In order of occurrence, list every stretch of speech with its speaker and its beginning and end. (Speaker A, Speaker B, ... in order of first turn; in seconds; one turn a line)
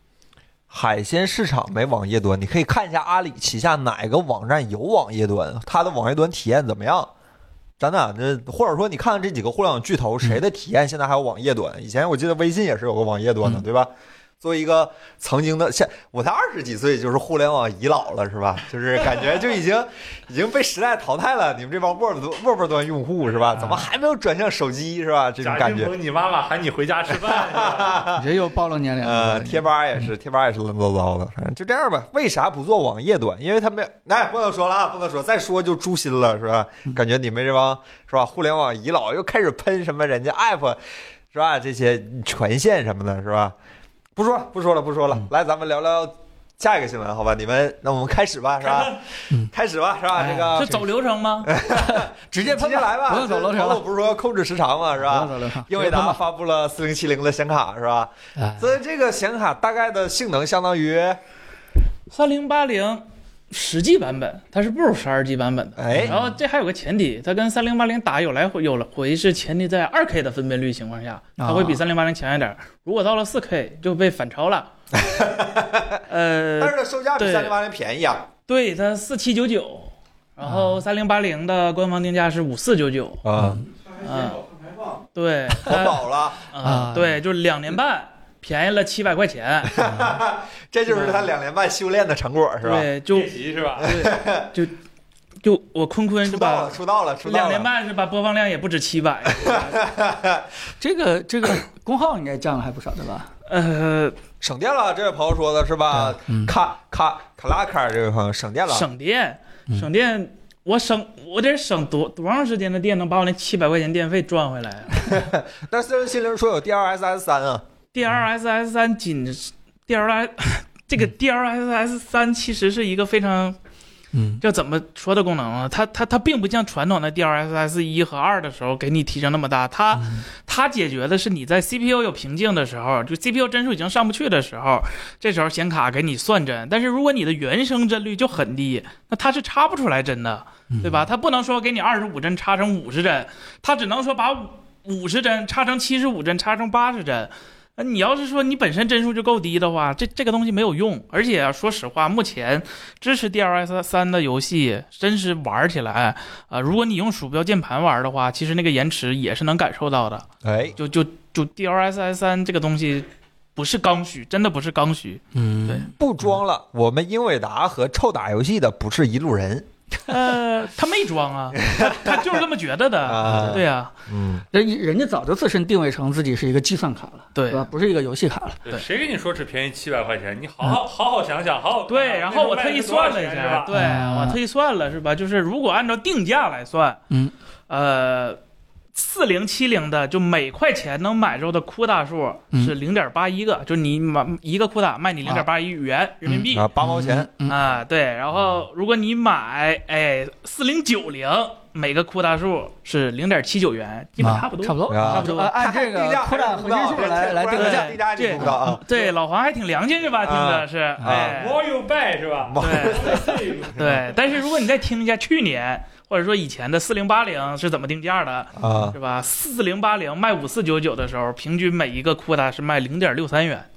Speaker A: 0.7-7.1
Speaker A: 7.8-13.9
Speaker A: 14.4-25.9
Speaker B: 23.6-23.9
Speaker C: 25.4-28.1
Speaker A: 27.1-28.2
Speaker B: 28.1-29.6
Speaker A: 29.0-40.8
Speaker A: 41.3-43.5
Speaker A: 44.1-50.8
Speaker C: 48.6-49.0
Speaker B: 50.1-50.8
Speaker D: 50.5-51.5
Speaker A: 51.4-61.2
Speaker B: 51.7-53.8
Speaker B: 55.0-56.2
Speaker B: 58.4-58.7
Speaker D: 62.1-74.7
Speaker A: 65.8-66.2
Speaker B: 71.4-71.8
Speaker A: 74.9-76.0
Speaker D: 76.1-77.5
Speaker A: 76.6-78.3
Speaker D: 78.5-83.2
Speaker B: 80.4-80.8
Speaker A: 83.2-83.6
Speaker B: 83.4-83.6
Speaker D: 83.9-84.4
Speaker D: 85.1-89.8
Speaker A: 85.6-86.4
Speaker B: 86.6-87.2
Speaker A: 89.7-92.9
Speaker B: 89.8-90.2
Speaker D: 90.9-91.3
Speaker D: 92.6-94.7
Speaker C: 93.1-93.9
Speaker A: 93.8-94.5
Speaker D: 95.4-99.8
Speaker A: 96.2-97.7
Speaker A: 99.3-100.5
Speaker B: 100.8-103.3
Speaker D: 103.5-104.1
Speaker A: 104.4-108.9
Speaker B: 105.9-106.5
Speaker D: 108.7-115.1
Speaker A: 115.1-117.6
Speaker D: 117.9-123.6
Speaker B: 124.1-124.4
Speaker D: 124.4-160.2
Speaker B: 130.0-130.2
Speaker B: 140.7-141.0
Speaker A: 160.4-160.8
Speaker D: 160.8-165.9
Speaker B: 165.3-165.9
Speaker A: 166.0-169.7
Speaker D: 170.1-173.9
Speaker A: 171.6-172.3
Speaker A: 173.0-174.4
Speaker B: 174.5-178.6
Speaker D: 177.3-177.7
Speaker C: 178.6-183.9
Speaker D: 181.9-187.0
Speaker B: 183.7-184.4
Speaker D: 187.7-188.4
Speaker D: 188.9-196.7
Speaker B: 196.2-197.6
Speaker A: 196.5-197.3
Speaker D: 197.5-205.5
Speaker B: 204.2-208.8
Speaker A: 204.9-208.8
Speaker D: 207.5-211.6
Speaker A: 210.2-211.4
Speaker C: 211.2-214.2
Speaker A: 212.4-213.4
Speaker D: 212.6-223.7
Speaker A: 218.6-218.9